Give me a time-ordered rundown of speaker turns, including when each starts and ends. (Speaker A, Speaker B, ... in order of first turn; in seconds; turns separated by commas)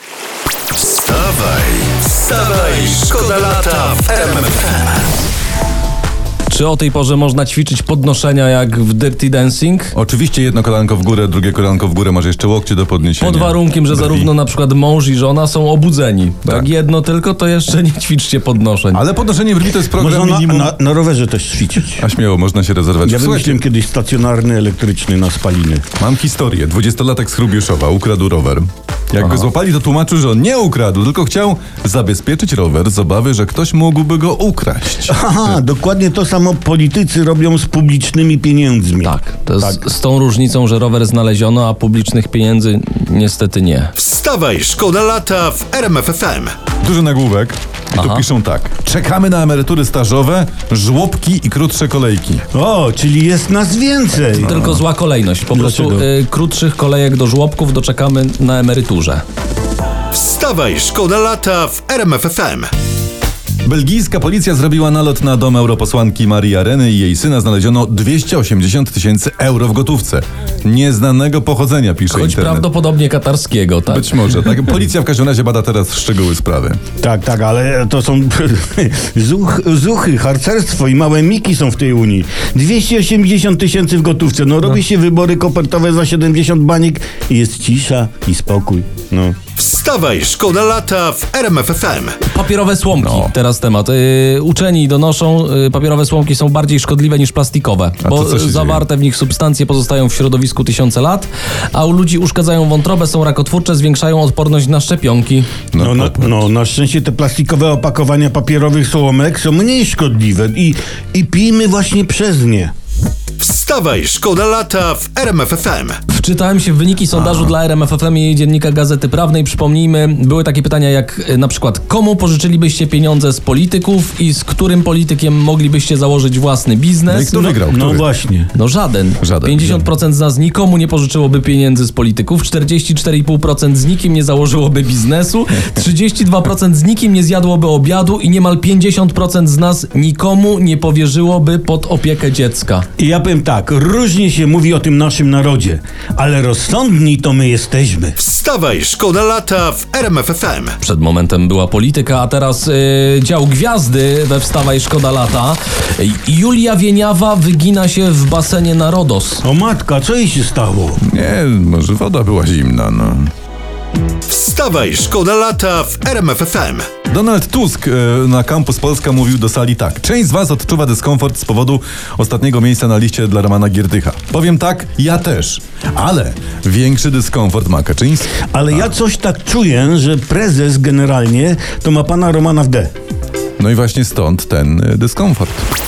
Speaker A: 0.9-4.9, Speaker B: 6.5-9.9, Speaker C: 9.9-14.3, Speaker B: 13.2-19.0, Speaker C: 18.9-20.7, Speaker D: 19.9-22.0, Speaker C: 22.0-23.6, Speaker D: 23.0-25.9, Speaker C: 26.0-35.2, Speaker D: 35.1-39.8, Speaker B: 39.0-43.9, Speaker A: 44.0-46.5, Speaker C: 46.8-52.4, Speaker B: 47.9-48.2, Speaker D: 52.5-54.6, Speaker B: 54.4-59.2, Speaker D: 55.5-56.1, Speaker A: 60.1-62.7, Speaker C: 63.6-72.7, Speaker B: 72.1-74.5, Speaker C: 73.9-76.8, Speaker D: 77.0-89.4, Speaker A: 89.5-92.2, Speaker B: 92.3-105.5, Speaker C: 93.0-93.3, Speaker C: 98.0-98.8, Speaker C: 105.7-106.3, Speaker D: 105.8-112.7, Speaker A: 113.4-116.0, Speaker B: 116.1-127.5, Speaker C: 127.1-128.1, Speaker D: 127.7-128.5, Speaker B: 128.5-142.9, Speaker C: 129.2-129.8, Speaker D: 143.0-148.2, Speaker A: 148.2-150.8, Speaker B: 150.8-159.4, Speaker D: 159.4-161.0, Speaker C: 161.1-163.3, Speaker A: 164.3-166.9, Speaker C: 167.0-178.4, Speaker D: 178.4-182.9, Speaker C: 183.6-185.7